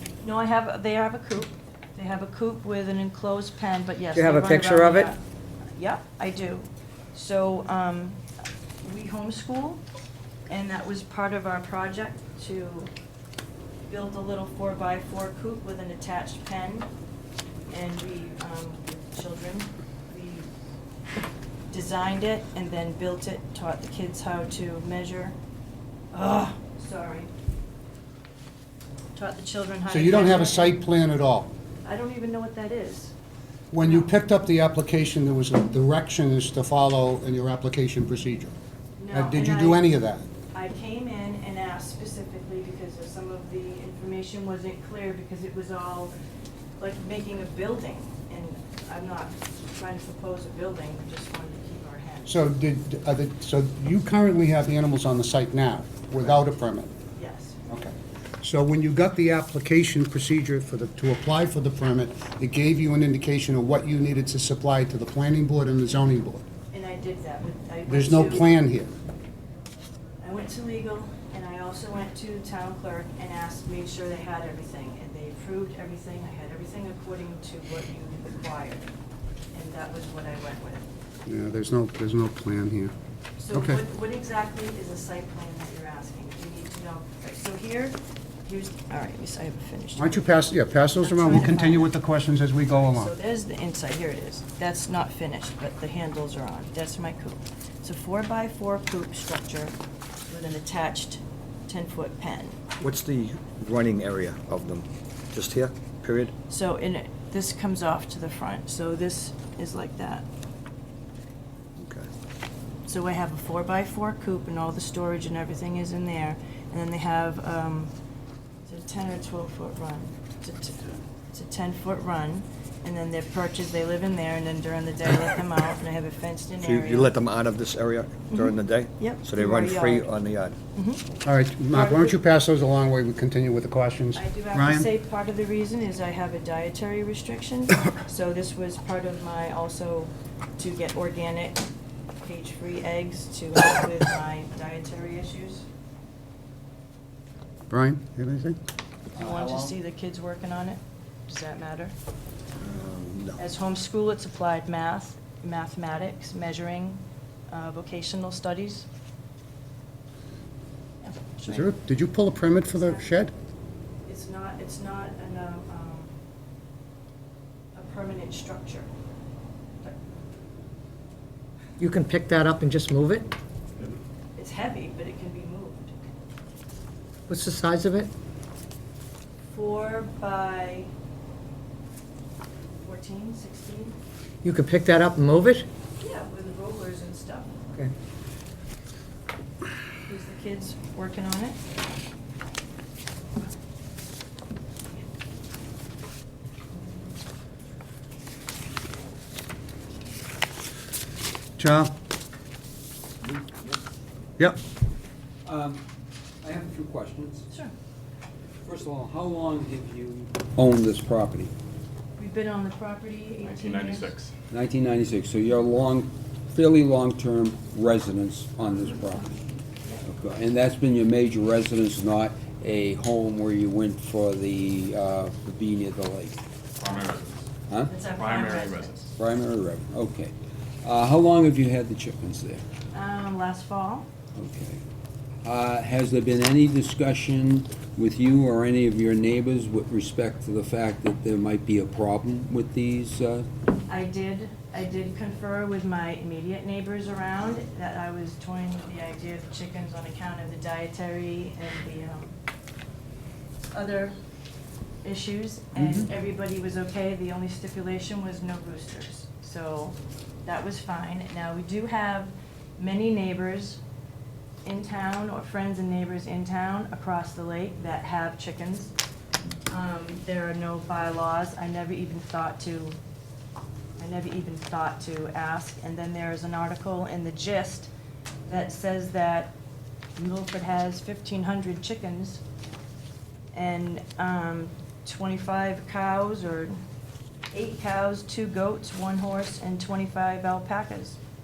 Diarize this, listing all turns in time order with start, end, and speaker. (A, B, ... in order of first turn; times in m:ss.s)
0:00.2-0:05.2 A
0:04.1-0:05.1 B
0:05.8-0:08.2 A
0:08.8-0:09.8 A
0:10.5-0:12.9 A
0:13.9-0:16.9 A
0:17.7-0:20.5 A
0:21.7-0:25.3 A
0:26.1-0:27.3 A
0:29.1-0:30.8 A
0:29.9-0:31.5 C
0:31.8-0:33.1 A
0:33.7-0:38.5 C
0:33.8-0:34.1 A
0:39.0-0:39.9 A
0:39.1-0:40.2 C
0:40.5-0:46.1 A
0:46.8-0:52.4 A
0:52.2-0:56.9 C
0:57.1-0:57.6 A
0:57.7-1:06.4 C
1:06.7-1:08.5 A
1:07.9-1:08.9 C
1:10.2-1:18.9 A
1:19.5-1:20.8 A
1:21.2-1:22.9 C
1:23.4-1:30.2 A
1:23.5-1:23.8 C
1:30.0-1:33.1 C
1:31.0-1:31.9 A
1:32.9-1:39.7 A
1:40.3-1:42.6 A
1:42.8-1:46.3 D
1:46.5-1:50.3 A
1:51.8-1:52.1 D
1:52.9-1:57.9 A
1:58.6-2:07.1 A
2:06.6-2:10.6 D
2:08.3-2:10.1 A
2:10.7-2:11.0 A
2:11.2-2:14.9 C
2:11.7-2:12.2 A
2:14.1-2:21.6 A
2:22.2-2:25.6 A
2:27.7-2:28.6 C
2:29.1-2:31.9 A
2:29.2-2:29.7 E
2:32.6-2:33.4 D
2:33.4-2:38.8 A
2:41.0-2:41.7 A
2:41.5-2:43.3 C
2:42.8-2:43.0 A
2:44.0-2:46.1 A
2:47.7-2:48.9 A
2:51.8-2:53.3 B
2:54.3-2:55.9 A
2:57.3-2:58.1 B
2:59.5-3:00.9 A
3:02.8-3:04.0 A
3:04.4-3:05.6 B
3:06.0-3:07.6 A
3:10.0-3:11.6 A
3:21.6-3:21.9 C
3:23.2-3:23.8 E
3:25.4-3:25.8 E
3:26.4-3:27.4 E
3:28.6-3:31.5 E
3:32.2-3:34.1 A
3:33.4-3:34.3 F
3:34.5-3:39.4 E
3:40.0-3:46.4 E
3:46.8-3:47.4 F
3:47.9-3:49.1 A
3:48.1-3:49.0 F
3:49.2-3:52.6 E
3:52.9-3:54.1 A
3:54.3-3:54.8 E
3:55.4-4:03.5 E
4:03.8-4:12.4 A
4:13.7-4:14.1 A
4:15.0-4:23.8 A
4:24.6-4:28.9 A
4:29.7-4:33.0 A
4:34.0-4:37.9 A
4:38.5-4:39.5 A
4:40.2-4:42.4 A
4:43.5-4:46.7 A
4:47.5-4:51.2 A